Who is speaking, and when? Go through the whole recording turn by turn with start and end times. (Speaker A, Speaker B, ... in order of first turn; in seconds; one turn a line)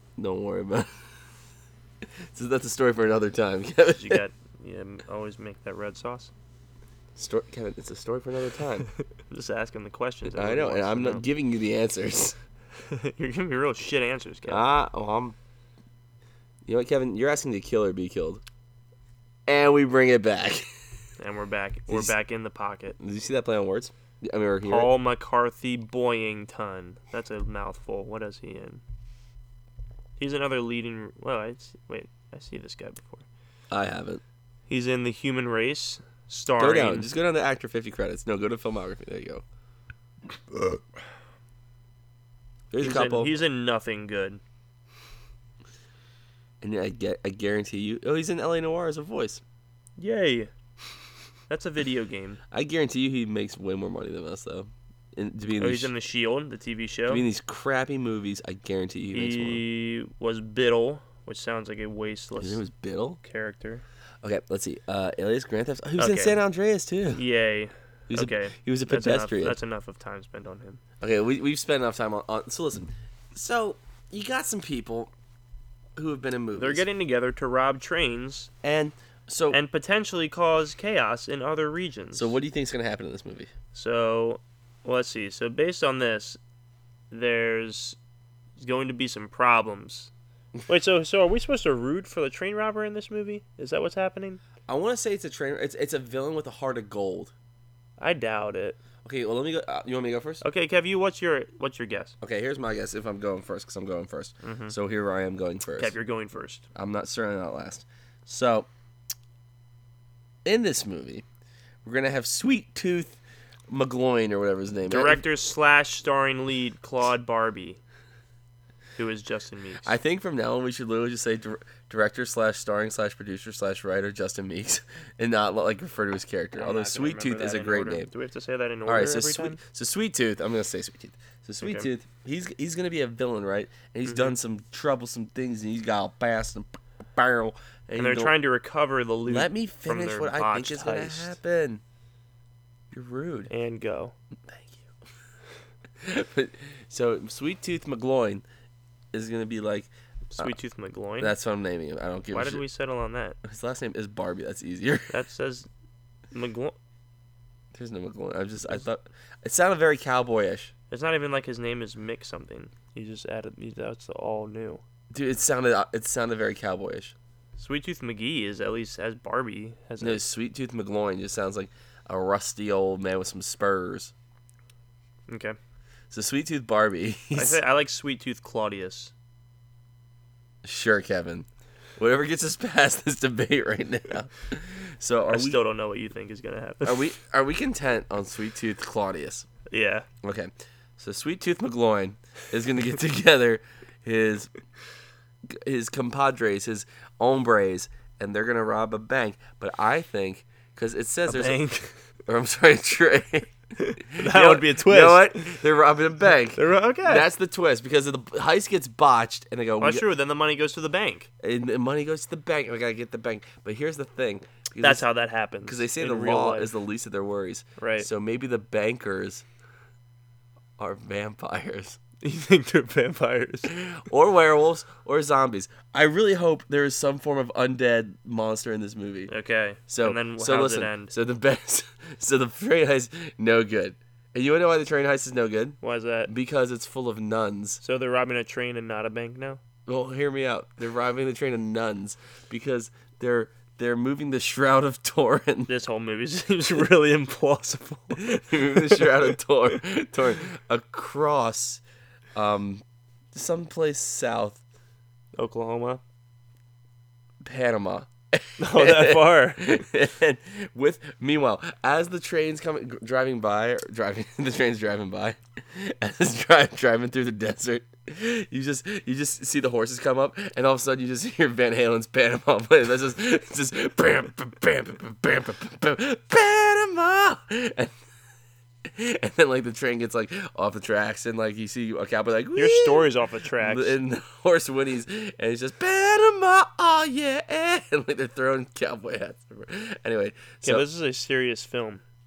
Speaker A: 0.2-0.9
Speaker A: 2.3-4.2
Speaker B: 4.0-6.3
Speaker A: 7.1-8.9
Speaker B: 9.3-11.3
Speaker A: 10.2-12.3
Speaker B: 12.9-14.6
Speaker A: 14.5-15.3
Speaker A: 16.6-18.4
Speaker A: 19.5-20.7
Speaker B: 21.2-23.0
Speaker A: 21.9-22.1
Speaker A: 23.0-24.9
Speaker B: 24.6-28.8
Speaker B: 30.2-33.2
Speaker A: 33.7-34.2
Speaker B: 34.7-37.1
Speaker A: 36.6-39.4
Speaker A: 42.7-43.3
Speaker B: 42.8-44.4
Speaker A: 46.6-49.4
Speaker B: 50.0-50.5
Speaker B: 51.5-52.4
Speaker A: 52.5-55.9
Speaker B: 55.6-57.2
Speaker A: 57.1-59.6
Speaker B: 59.1-62.6
Speaker A: 62.4-63.2
Speaker B: 63.2-63.8
Speaker A: 64.2-67.2
Speaker B: 66.0-66.4
Speaker B: 67.1-70.8
Speaker A: 68.1-69.6
Speaker A: 71.0-75.1
Speaker A: 76.0-76.8
Speaker B: 76.5-78.5
Speaker A: 78.6-79.6
Speaker B: 79.5-82.4
Speaker A: 82.1-83.5
Speaker B: 83.7-86.4
Speaker B: 87.1-88.0
Speaker B: 88.6-90.1
Speaker B: 90.7-94.4
Speaker A: 94.7-97.3
Speaker B: 98.0-98.8
Speaker A: 99.0-100.4
Speaker B: 100.4-102.1
Speaker A: 102.2-105.9
Speaker B: 104.4-104.7
Speaker B: 105.8-106.6
Speaker A: 106.7-108.7
Speaker A: 110.4-111.2
Speaker A: 111.8-113.2
Speaker A: 113.7-115.2
Speaker B: 114.9-117.8
Speaker B: 119.0-119.9
Speaker A: 119.8-128.1
Speaker B: 126.6-129.6
Speaker A: 128.8-138.3
Speaker B: 131.6-131.9
Speaker B: 134.1-134.3
Speaker B: 137.9-141.3
Speaker A: 139.2-141.8
Speaker A: 142.9-143.5
Speaker B: 143.5-144.1
Speaker A: 144.5-144.9
Speaker A: 146.0-148.4
Speaker A: 149.1-150.5
Speaker B: 150.3-151.3
Speaker A: 151.2-152.6
Speaker B: 152.3-153.4
Speaker A: 153.4-155.1
Speaker B: 155.1-155.7
Speaker B: 156.3-156.7
Speaker A: 157.7-160.7
Speaker B: 160.9-164.8
Speaker A: 165.1-167.1
Speaker B: 167.6-170.2
Speaker A: 170.0-174.1
Speaker B: 175.3-175.6
Speaker A: 176.1-177.6
Speaker B: 177.3-179.1
Speaker A: 180.6-181.4
Speaker A: 182.0-185.6
Speaker B: 185.3-187.1
Speaker A: 186.8-189.5
Speaker B: 189.7-190.1
Speaker A: 190.2-194.5
Speaker A: 195.5-201.6
Speaker B: 201.3-201.9
Speaker A: 202.3-210.1
Speaker B: 203.8-205.6
Speaker B: 206.5-207.2
Speaker B: 209.8-211.3
Speaker A: 211.4-215.1
Speaker B: 214.8-216.7
Speaker A: 215.6-219.4
Speaker B: 217.8-218.1
Speaker A: 220.8-222.0
Speaker B: 222.2-223.7
Speaker A: 223.7-229.3
Speaker B: 229.3-231.1
Speaker A: 229.9-237.8
Speaker B: 235.8-236.3
Speaker B: 237.8-239.6
Speaker A: 239.9-245.7
Speaker B: 245.7-249.3
Speaker A: 248.2-251.8
Speaker A: 252.3-254.6
Speaker B: 255.3-256.0
Speaker A: 257.4-277.9
Speaker B: 258.6-259.9
Speaker A: 278.8-290.9
Speaker B: 282.5-283.9
Speaker B: 290.6-292.0